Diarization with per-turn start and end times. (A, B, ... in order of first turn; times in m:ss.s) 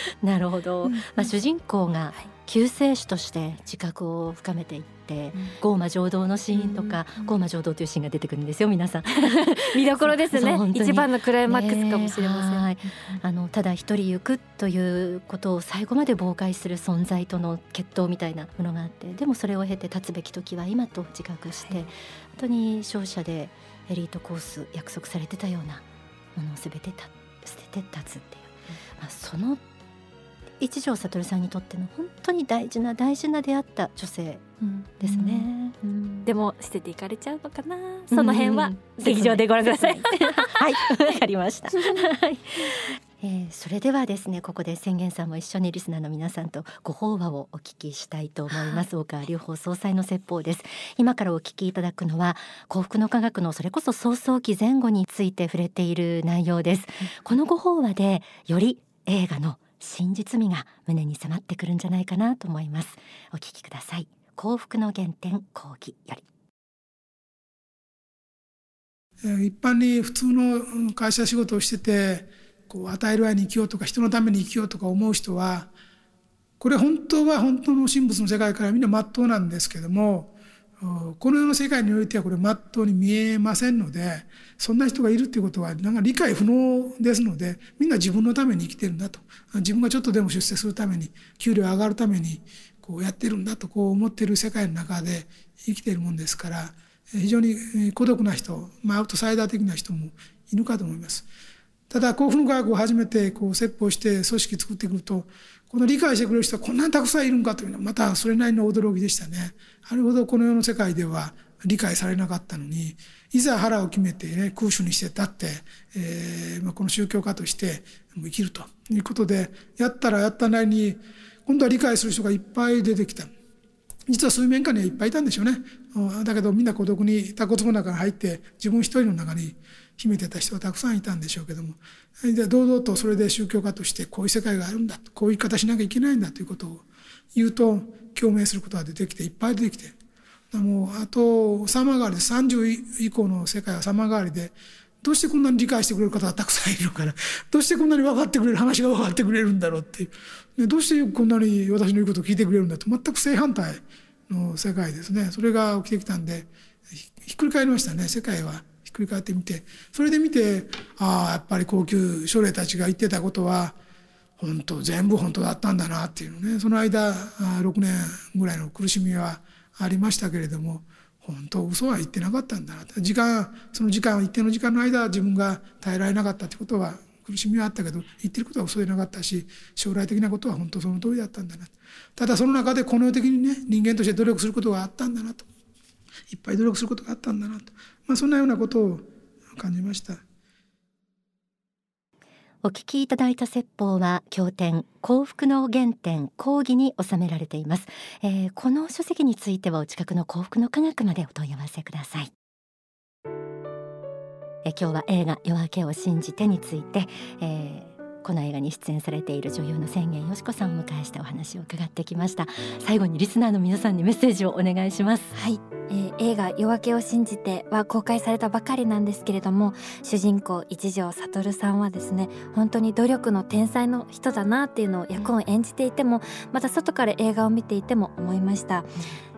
0:00.2-0:25.8 A
0:00.8-0:01.3 B
0:06.5-0:07.3 B
0:09.1-0:13.2 B
0:26.4-0:29.6 A
0:30.6-0:34.4 A
0:34.6-0:40.9 B
0:35.0-0:35.8 A
0:38.1-1:06.2 A
0:48.5-0:48.8 B
1:09.2-1:15.7 C
1:16.6-1:41.3 C
1:41.9-2:03.3 C
2:04.1-2:20.0 C
2:20.5-2:36.5 C
2:37.1-2:43.8 C
2:44.4-3:05.5 C
3:06.3-3:10.2 C
3:12.6-3:22.3 A
3:24.6-3:35.3 A
3:35.3-3:48.9 B